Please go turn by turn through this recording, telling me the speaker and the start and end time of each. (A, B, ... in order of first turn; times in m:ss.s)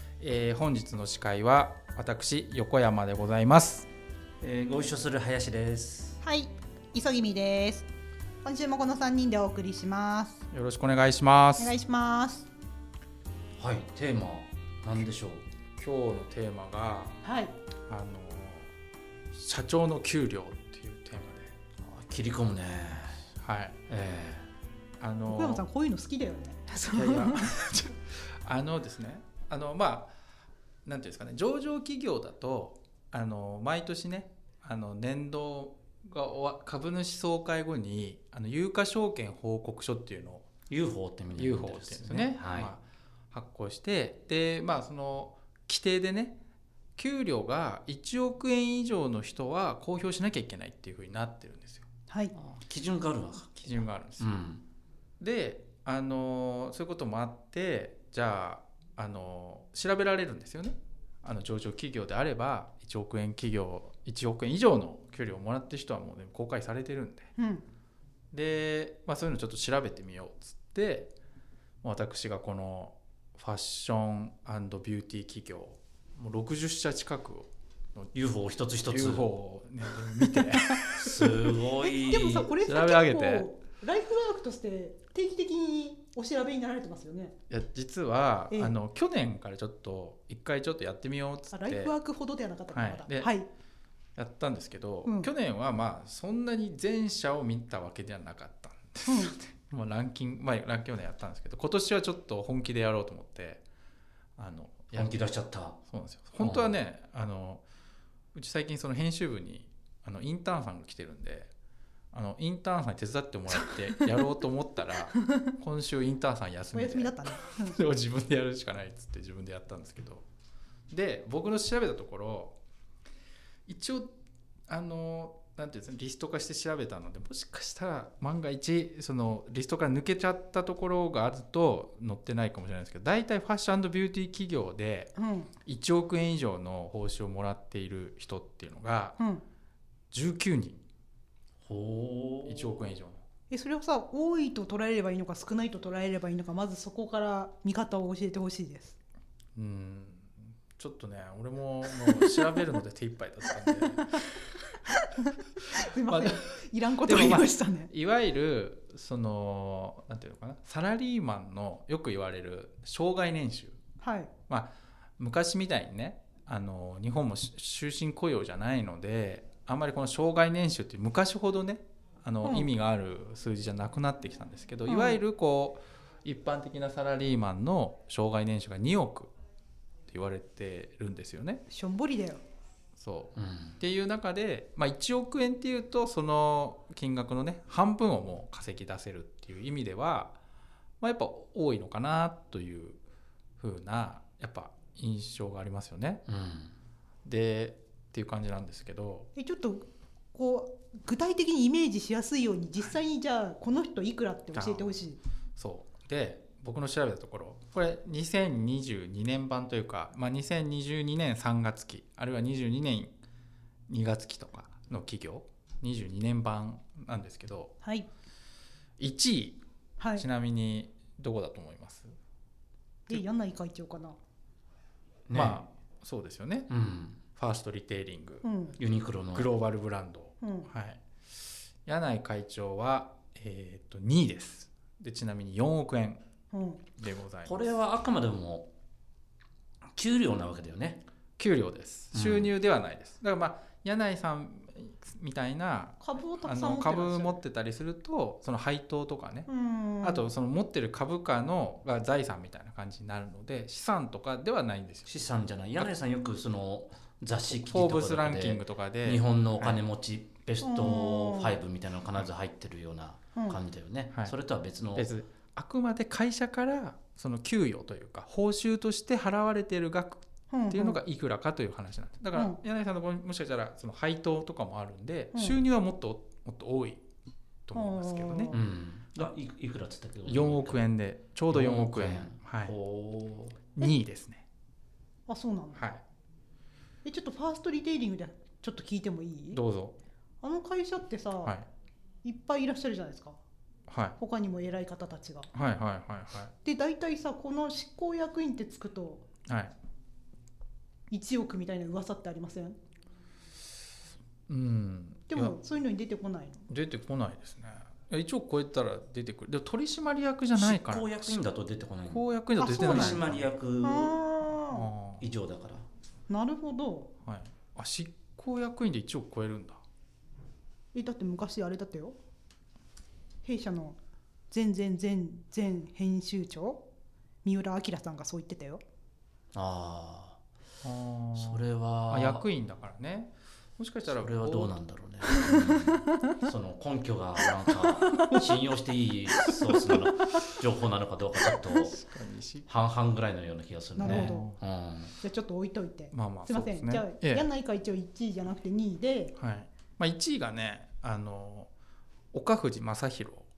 0:00.2-0:03.9 A
0:04.4-0:06.2 B
0:06.2-0:07.9 C
0:08.4-0:10.4 C
0:10.5-0:11.8 A
0:11.6-0:12.5 C
0:13.6-0:15.4 B
0:15.8-0:17.2 A
0:17.2-0:17.6 C
0:17.9-0:18.7 A
0:19.3-0:21.6 A
0:21.8-0:23.3 B
0:23.4-0:23.8 A
0:23.9-0:24.5 B
0:25.0-0:25.6 A
0:25.3-0:27.5 C
0:26.9-0:30.1 A
0:30.8-0:40.5 A
0:40.7-0:42.7 B
0:41.3-0:46.4 A
0:47.0-0:51.9 A
0:52.1-0:52.3 C
0:52.3-0:54.6 B
0:53.6-0:54.3 A
0:55.2-1:07.3 A
1:07.4-1:07.6 C
1:08.3-1:11.1 A
1:11.8-1:18.1 A
1:18.1-1:19.3 B
1:18.9-1:21.6 A
1:21.0-1:22.5 B
1:21.8-1:27.4 C
1:22.6-1:23.5 A
1:27.5-1:31.9 A
1:31.5-1:33.5 C
1:32.7-1:33.3 A
1:34.2-1:43.6 A
1:35.0-1:35.3 C
1:39.1-1:39.4 C
1:44.4-1:45.2 A
1:44.9-1:45.8 B
1:45.9-1:47.6 A
1:46.4-1:46.7 B
1:48.3-1:51.5 A
1:52.1-2:00.2 A
1:53.7-1:54.1 C
1:55.2-1:55.5 C
1:56.7-1:57.8 C
2:00.9-2:02.6 A
2:03.7-2:04.1 A
2:04.7-2:19.2 A
2:15.2-2:15.5 C
2:19.2-2:19.4 C
2:20.1-2:20.8 A
2:21.6-2:22.9 B
2:22.4-2:23.2 A
2:23.5-2:29.0 C
2:29.6-2:34.6 A
2:31.9-2:32.7 C
2:33.6-2:34.2 C
2:34.9-2:37.9 C
2:35.7-2:43.8 A
2:44.0-2:44.3 C
2:44.5-2:59.3 A
2:52.4-2:52.7 C
2:54.9-2:55.2 C
3:00.1-3:01.6 A
3:01.7-3:02.4 C
3:03.0-3:10.4 A
3:03.4-3:03.8 B
3:11.0-3:13.0 A
3:13.6-3:16.2 A
3:16.3-3:16.7 B
3:17.2-3:19.3 A
3:19.4-3:25.2 C
3:24.5-3:24.9 A
3:25.6-3:33.1 A
3:33.9-3:37.8 A
3:37.8-3:38.1 C
3:39.0-3:39.6 A
3:40.0-3:40.3 C
3:40.2-3:42.1 A
3:43.1-3:44.2 C
3:45.3-3:45.6 B
3:45.3-3:46.7 A
3:46.7-3:47.2 B
3:47.4-3:48.4 A
3:48.4-3:48.8 C
3:48.8-3:49.5 B
3:49.3-3:51.0 A
3:50.4-3:50.7 C
3:51.8-3:56.2 A
3:56.5-3:56.8 C
3:57.0-3:57.8 A
3:57.4-3:58.7 B
3:59.9-4:01.0 B
4:01.4-4:09.5 A
4:02.1-4:02.5 B
4:06.0-4:07.4 C
4:09.5-4:10.3 C
4:10.0-4:15.1 A
4:15.0-4:25.1 B
4:17.5-4:19.8 A
4:20.6-4:21.6 C
4:25.0-4:37.0 A
4:30.5-4:31.0 C
4:37.7-4:38.6 A
4:37.8-4:38.6 C
4:38.5-4:40.8 B
4:40.3-4:42.8 A
4:41.5-4:43.6 B
4:43.8-4:44.4 A
4:45.3-4:45.8 C
4:45.8-4:46.0 A
4:47.0-4:49.6 C
4:49.5-4:50.0 A
4:50.4-4:51.6 C
4:52.2-4:53.4 C
4:53.9-4:54.2 A
4:54.2-4:55.5 C
4:55.5-4:56.5 A
4:56.6-4:59.2 C
4:59.5-4:59.8 A
5:01.1-5:02.8 C
5:04.5-5:05.6 A
5:05.3-5:06.7 C
5:06.7-5:11.4 A
5:10.6-5:14.2 B
5:12.1-5:13.5 A
5:12.6-5:13.2 C
5:13.8-5:14.9 C
5:14.7-5:15.2 A
5:15.2-5:15.9 B
5:16.3-5:17.1 C
5:17.2-5:19.8 A
5:20.9-5:22.2 C
5:23.4-5:24.0 C
5:24.5-5:26.8 C
5:27.4-5:28.8 C
5:29.5-5:30.4 B
5:30.8-5:34.8 A
5:31.4-5:32.5 B
5:34.1-5:42.0 B
5:35.3-5:36.4 C
5:38.0-5:38.4 C
5:39.4-5:40.5 C
5:41.6-5:42.8 A
5:42.7-5:45.1 B
5:44.0-5:44.5 C
5:44.0-5:44.6 A
5:45.2-5:49.3 C
5:46.1-5:47.5 A
5:49.4-5:51.7 A
5:52.3-5:53.5 A